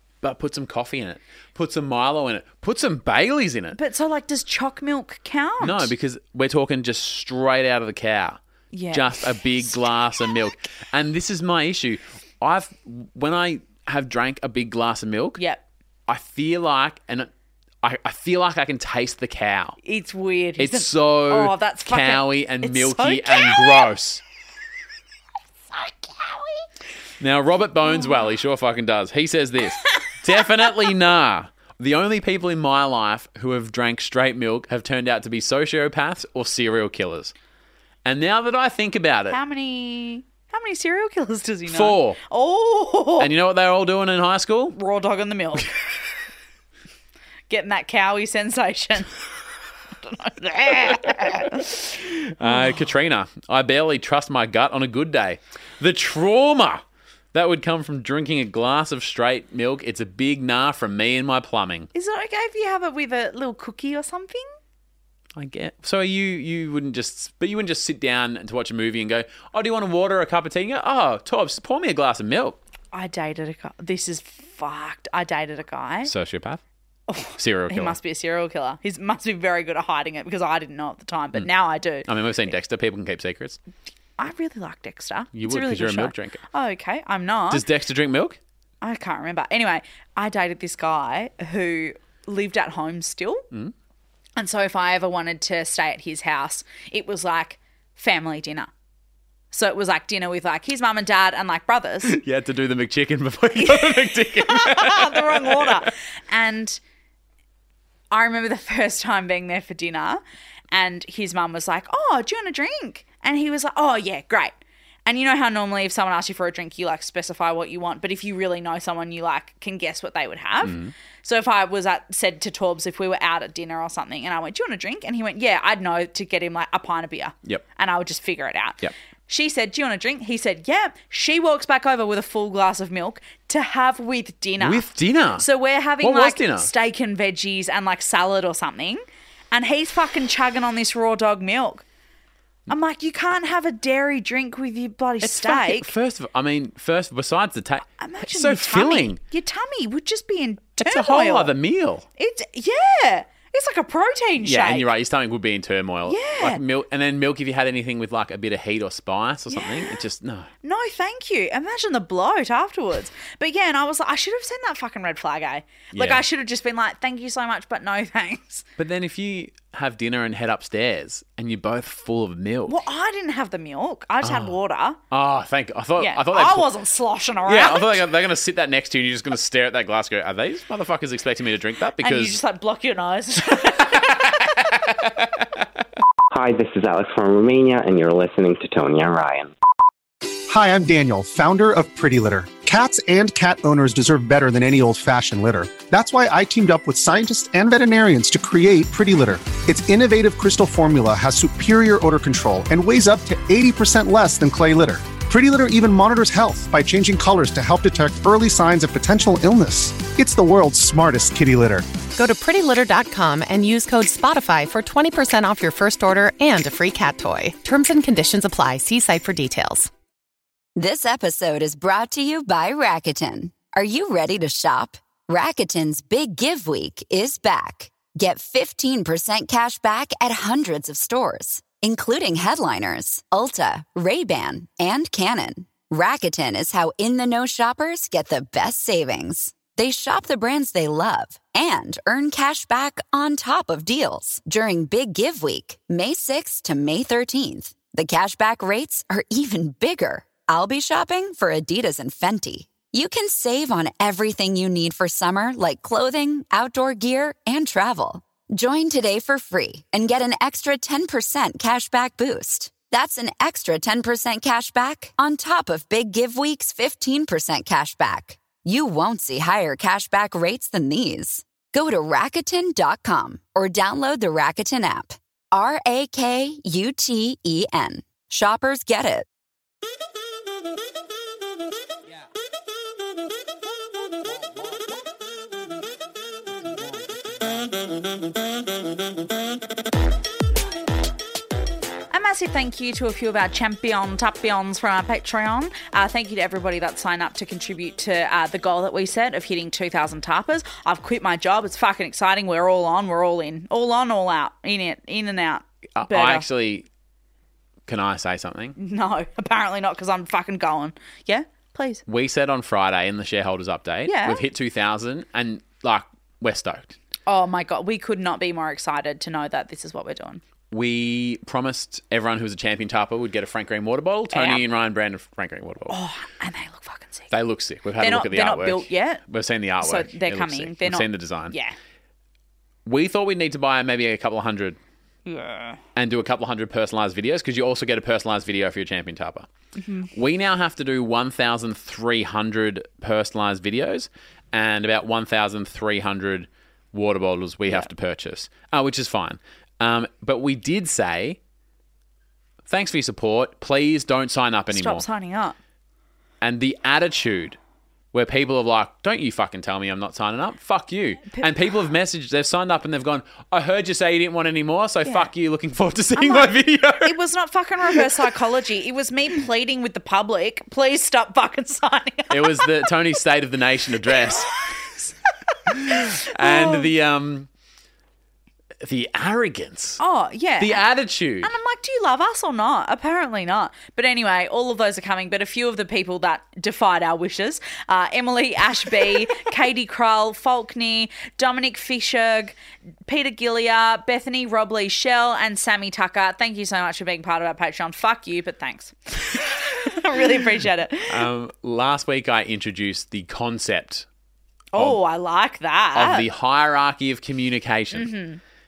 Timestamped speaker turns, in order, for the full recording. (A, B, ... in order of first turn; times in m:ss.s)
0:00.2-0:03.8 A
0:03.7-0:05.9 B
0:05.6-0:08.4 A
0:08.7-0:09.2 B
0:08.9-0:15.4 A
0:15.4-0:15.6 B
0:16.1-0:17.3 A
0:17.8-0:19.8 A
0:19.8-0:23.9 B
0:20.6-0:24.2 A
0:25.7-0:26.5 B
0:27.2-0:37.3 A
0:38.0-0:39.4 A
0:39.3-0:43.3 B
0:41.7-0:42.2 A
0:43.2-0:44.8 A
0:44.7-0:45.7 B
0:47.5-0:49.1 B
0:50.0-0:51.8 B
0:51.1-1:01.9 A
0:52.4-0:52.8 B
1:01.9-1:04.5 B
1:05.4-1:12.6 A
1:12.9-1:16.1 B
1:16.1-1:16.6 A
1:17.1-1:22.1 B
1:17.4-1:18.0 A
1:22.0-1:23.6 A
1:24.2-1:27.6 B
1:25.3-1:26.4 A
1:27.5-1:28.4 A
1:28.8-1:33.4 B
1:34.4-1:38.7 B
1:39.5-1:42.2 B
1:42.0-1:45.9 A
1:43.6-1:46.8 B
1:48.1-1:54.5 B
1:55.1-2:14.9 B
2:00.6-2:00.9 A
2:14.6-2:15.5 A
2:15.4-2:21.8 B
2:16.0-2:16.7 A
2:22.7-2:25.9 B
2:25.2-2:29.2 A
2:28.0-2:31.5 B
2:30.8-2:32.1 A
2:32.2-2:34.9 B
2:34.4-2:40.5 A
2:36.1-2:36.6 B
2:39.5-2:40.0 B
2:40.6-2:48.6 B
2:45.9-2:46.2 A
2:48.8-2:52.8 A
2:52.7-2:55.0 B
2:54.2-2:54.6 A
2:55.1-2:56.7 A
2:56.0-2:58.0 B
2:57.5-3:02.4 A
3:02.0-3:04.5 B
3:03.8-3:05.4 A
3:06.3-3:09.5 C
3:10.5-3:31.9 D
3:32.2-3:39.9 E
3:40.8-4:39.3 F
4:52.1-5:06.5 B
5:06.0-5:06.9 A
5:07.9-5:08.8 A
5:08.8-5:12.0 B
5:12.1-5:17.0 A
5:14.1-5:14.4 B
5:17.3-5:20.4 B
5:20.7-5:26.0 A
5:24.3-5:24.6 B
5:25.9-5:27.3 B
5:27.3-5:31.6 A
5:28.0-5:29.2 B
5:29.8-5:31.8 B
5:32.9-5:34.8 A
5:35.3-5:35.8 B
5:36.0-5:39.5 A
5:39.8-5:40.1 B
5:40.1-5:51.4 A
5:52.7-5:55.0 A
5:54.7-5:55.6 B
5:56.4-5:57.6 A
5:58.1-6:07.2 A
6:06.2-6:12.9 B
6:12.3-6:14.5 A
6:14.1-6:15.1 B
6:15.7-6:16.9 B
6:15.7-6:17.5 A
6:18.8-6:20.0 A
6:20.0-6:20.8 B
6:20.6-6:21.5 A
6:21.4-6:32.6 B
6:33.1-6:41.3 B
6:41.1-6:44.1 A
6:44.7-6:46.3 B
6:46.0-6:48.1 A
6:47.9-6:48.4 B